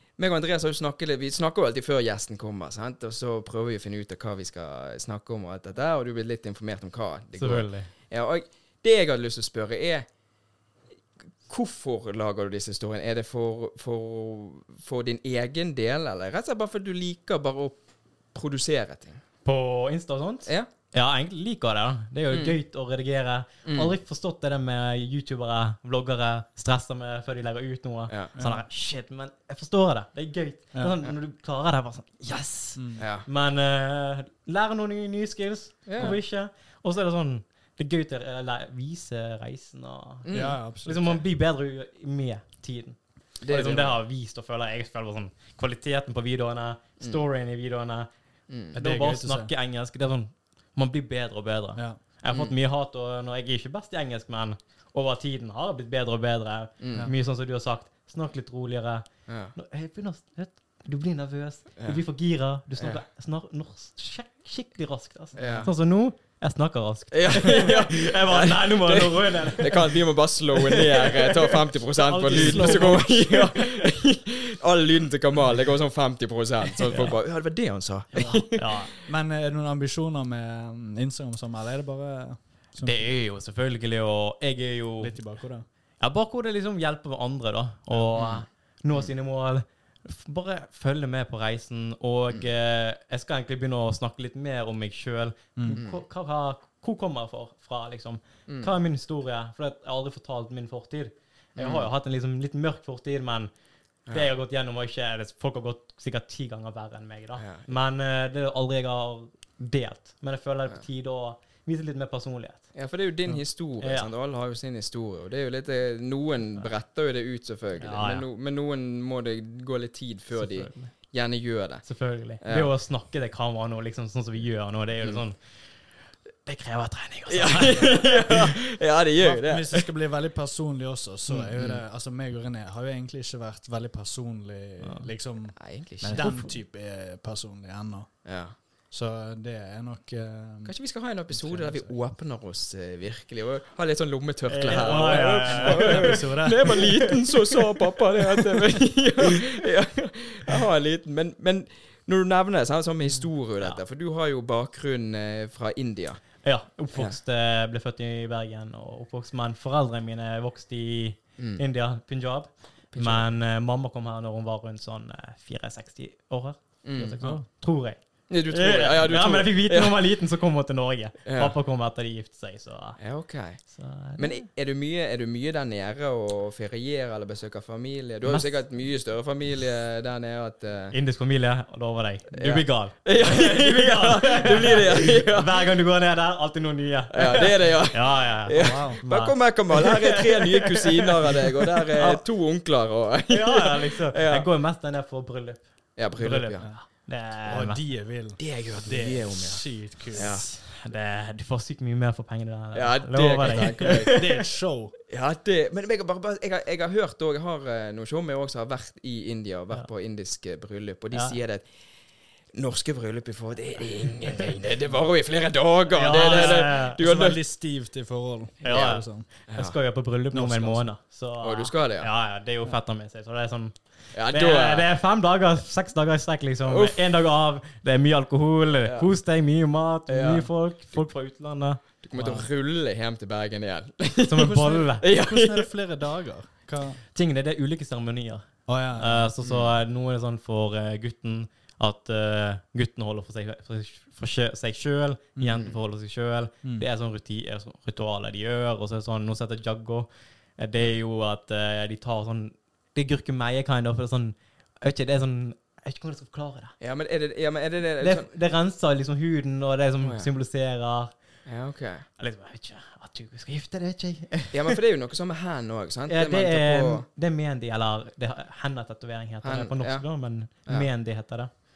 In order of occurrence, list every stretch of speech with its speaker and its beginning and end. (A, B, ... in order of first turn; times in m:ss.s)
0:00.2-0:10.1 A
0:07.4-0:07.9 B
0:11.5-0:17.8 A
0:18.3-0:19.2 A
0:19.4-0:40.3 B
0:22.3-0:22.6 A
0:23.6-0:24.0 A
0:28.4-0:28.6 C
0:32.8-0:33.0 C
0:33.0-0:33.3 A
0:35.9-0:36.2 A
0:40.2-0:40.6 A
0:40.3-0:41.2 C
0:40.8-0:48.1 B
0:43.4-0:44.0 A
0:48.5-0:48.8 A
0:48.7-1:10.0 B
0:48.8-0:49.5 C
0:56.8-0:57.1 A
0:59.3-0:59.6 A
1:05.4-1:05.7 A
1:07.1-1:19.0 A
1:10.6-1:11.6 B
1:12.0-1:13.4 C
1:12.2-1:13.8 B
1:16.9-1:17.2 B
1:18.2-1:18.9 B
1:18.2-1:23.1 C
1:22.8-1:25.2 B
1:25.0-1:25.6 C
1:26.0-1:43.5 B
1:28.1-1:29.1 A
1:35.7-1:36.0 A
1:38.5-1:38.7 A
1:41.6-1:41.9 A
1:44.1-1:52.6 B
1:47.4-1:47.7 A
1:52.7-2:02.7 A
1:53.8-1:54.1 B
1:57.8-1:58.3 B
2:00.4-2:00.9 B
2:01.8-2:05.4 B
2:06.4-2:08.5 B
2:07.3-2:09.9 A
2:09.2-2:18.1 C
2:11.3-2:11.8 A
2:14.8-2:15.1 B
2:15.6-2:16.4 A
2:16.1-2:16.6 B
2:18.2-2:18.5 A
2:18.9-2:20.7 C
2:20.6-2:36.3 A
2:21.3-2:21.9 C
2:24.5-2:27.3 B
2:24.7-2:26.9 C
2:36.4-2:53.0 B
2:42.9-2:43.2 A
2:46.8-2:47.2 A
2:48.3-2:50.0 A
2:51.2-2:51.5 A
2:53.0-2:53.6 A
2:53.7-2:54.4 B
2:54.2-3:01.0 A
2:58.3-2:58.6 B
3:00.9-3:12.2 B
3:02.3-3:05.6 A
3:07.1-3:14.5 A
3:08.5-3:09.0 C
3:13.3-3:17.8 B
3:16.0-3:16.7 A
3:17.4-3:20.4 C
3:18.4-3:20.5 A
3:20.1-3:24.1 B
3:22.7-3:24.4 A
3:23.5-3:24.9 C
3:25.1-3:31.7 A
3:32.5-3:37.4 A
3:35.9-3:37.0 B
3:36.2-3:39.3 C
3:38.6-3:52.4 B
3:38.7-3:39.7 A
3:40.3-3:40.9 C
3:41.4-3:42.1 A
3:44.1-3:44.9 A
3:46.7-3:47.0 A
3:48.8-3:49.1 A
3:50.1-3:50.5 A
3:52.0-3:55.7 A
3:52.2-3:52.4 C
3:54.2-3:55.1 B
3:54.4-3:57.0 C
3:57.1-4:16.8 B
3:58.7-3:59.3 C
3:59.4-3:59.7 A
4:05.4-4:05.6 C
4:16.8-4:18.3 A
4:18.0-4:21.1 B
4:20.0-4:20.3 A
4:21.5-4:22.1 A
4:22.2-4:24.8 B
4:24.5-4:27.1 A
4:26.1-4:31.5 B
4:29.4-4:30.1 A